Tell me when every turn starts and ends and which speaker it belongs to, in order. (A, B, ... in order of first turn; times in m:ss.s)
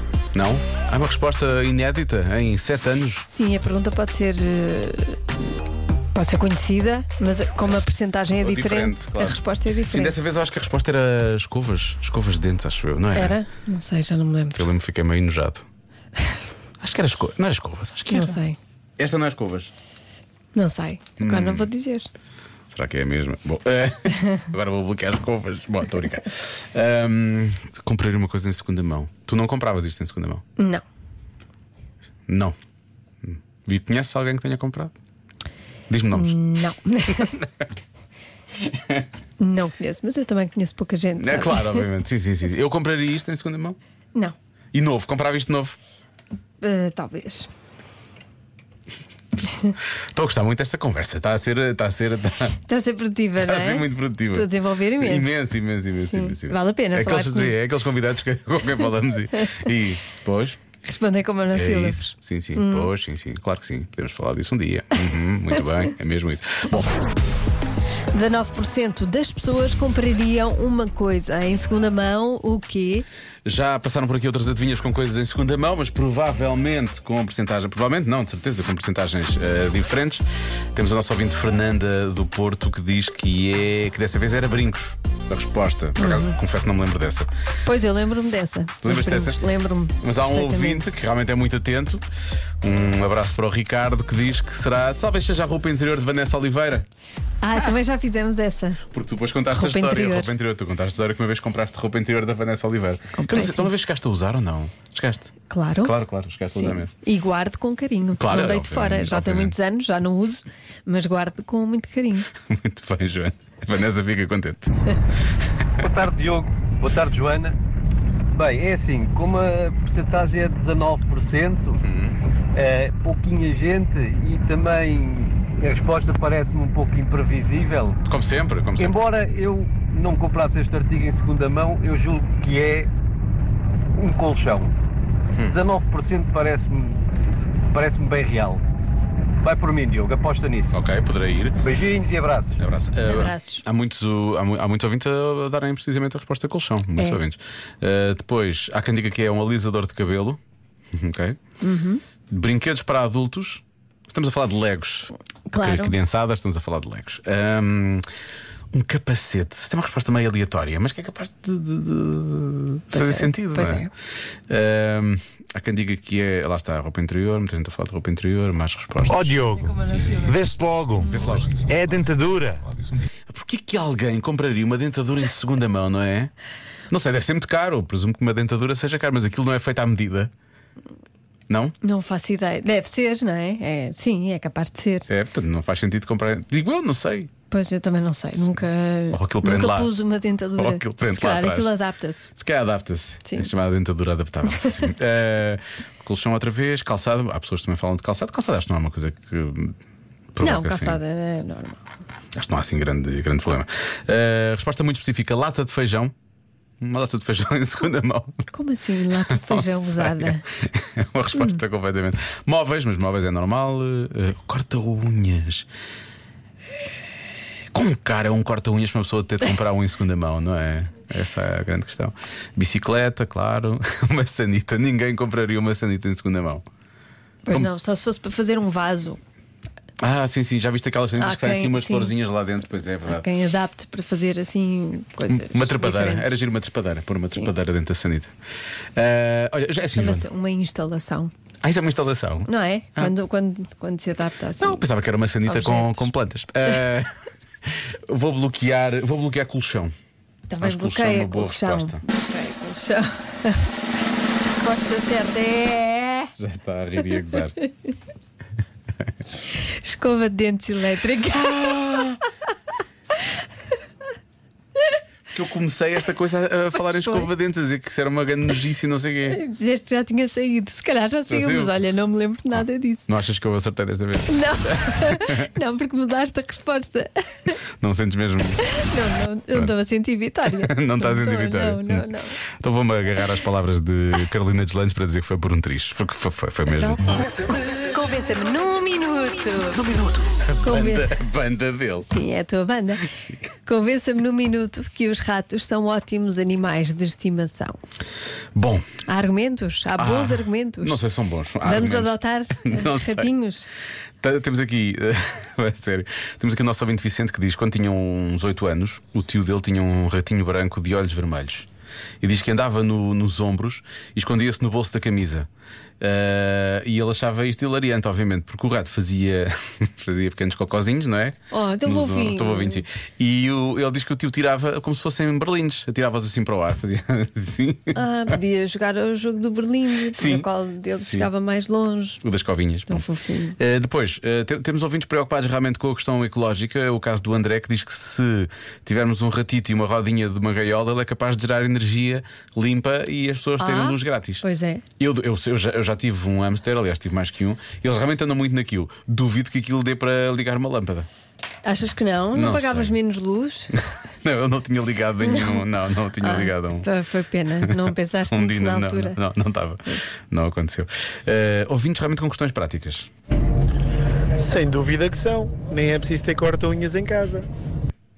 0:00.3-0:03.2 A
0:03.3-0:05.2 B
0:06.1-0:10.2 B
0:08.4-0:13.4 A
0:13.1-0:14.6 B
0:14.6-0:15.6 A
0:16.8-0:18.4 A
0:18.1-0:18.6 B
0:19.0-0:19.7 A
0:20.5-0:22.1 B
0:21.2-0:21.7 A
0:22.7-0:30.4 A
0:30.6-0:30.8 B
0:32.3-0:32.6 A
0:33.2-0:34.9 A
0:35.9-0:36.4 A
0:36.1-0:37.3 B
0:39.4-0:41.9 B
0:41.2-0:43.8 A
0:44.7-0:45.8 A
0:46.6-0:47.5 B
0:50.1-0:52.6 A
0:52.6-0:55.4 B
0:53.4-1:00.6 A
0:56.0-0:57.6 B
1:00.8-1:02.9 B
1:01.5-1:06.9 A
1:08.1-1:13.1 B
1:13.4-1:27.3 A
1:26.0-1:26.4 B
1:27.6-1:30.9 B
1:28.8-1:29.4 A
1:30.0-1:32.0 A
1:32.6-1:36.9 A
1:37.4-1:38.8 B
1:38.9-1:46.9 A
1:39.5-1:40.3 B
1:43.1-1:43.7 B
1:45.5-1:45.9 B
1:46.5-1:52.3 B
1:48.2-1:49.6 A
1:52.4-1:54.8 A
1:55.8-1:57.6 C
1:58.3-2:01.8 C
2:01.8-2:02.2 A
2:02.5-2:08.0 C
2:08.1-2:09.0 A
2:08.8-2:12.9 C
2:14.0-2:14.8 C
2:15.5-2:17.0 C
2:17.7-2:18.6 C
2:19.4-2:20.8 C
2:20.7-2:21.6 A
2:21.6-2:22.6 C
2:22.6-2:30.4 A
2:23.0-2:23.6 B
2:31.0-2:31.4 A
2:31.6-2:32.0 B
2:32.3-2:38.0 A
2:35.5-2:35.9 B
2:38.7-2:43.8 A
2:42.9-2:43.9 B
2:44.5-2:49.4 A
2:49.1-2:52.7 D
2:51.1-2:51.6 A
2:53.3-2:56.3 A
2:56.9-3:00.3 A
3:01.5-3:01.7 A
3:01.8-3:05.1 B
3:05.1-3:07.3 A
3:07.5-3:12.3 B
3:09.1-3:09.9 A
3:10.6-3:11.7 A
3:12.4-3:19.8 A
3:20.3-3:21.0 A
3:20.4-3:21.8 B
3:22.3-3:26.1 A
3:26.8-3:28.4 A
3:28.5-3:30.4 B
3:29.3-3:35.7 A
3:37.7-3:46.6 A
3:47.4-3:49.2 B
3:50.0-3:53.2 A
3:51.2-3:52.1 B
3:53.1-3:56.4 B
3:55.3-3:58.3 A
3:59.0-4:00.3 A
3:59.9-4:01.3 B
4:01.6-4:03.1 A
4:02.5-4:04.8 B
4:04.6-4:07.1 A
4:05.4-4:06.1 B
4:08.1-4:09.9 A
4:10.5-4:13.6 B
4:10.6-4:12.0 A
4:14.5-4:16.3 B
4:16.4-4:17.6 A
4:19.8-4:22.2 B
4:21.7-4:22.0 A
4:25.3-4:29.4 A
4:26.7-4:27.3 B
4:29.3-4:33.1 B
4:31.3-4:31.7 A
4:32.6-4:34.3 A
4:34.3-4:37.5 B
4:34.9-4:35.4 A
4:37.8-4:38.6 A
4:38.7-4:42.4 B
4:40.6-4:42.1 A
4:42.6-4:47.1 A
4:46.8-4:49.8 B
4:49.7-4:52.1 A
4:50.6-4:51.1 B
4:52.0-4:53.1 B
4:53.0-4:53.4 A
4:53.6-4:57.8 B
4:58.6-4:58.8 A
4:59.1-5:01.0 B
5:00.0-5:03.3 A
5:01.6-5:03.7 B
5:04.2-5:11.7 A
5:12.2-5:15.5 A
5:16.0-5:28.0 A
5:21.5-5:22.8 B
5:27.9-5:32.2 B
5:30.2-5:31.3 A
5:32.2-5:33.0 A
5:32.9-5:33.6 B
5:33.6-5:44.4 A
5:43.6-5:44.8 B
5:45.0-5:51.1 A
5:51.6-5:53.7 B
5:52.3-5:53.0 A
5:53.7-5:56.9 A
5:55.2-5:55.7 B
5:56.2-5:59.2 B
5:57.6-6:03.1 A
6:04.4-6:07.4 E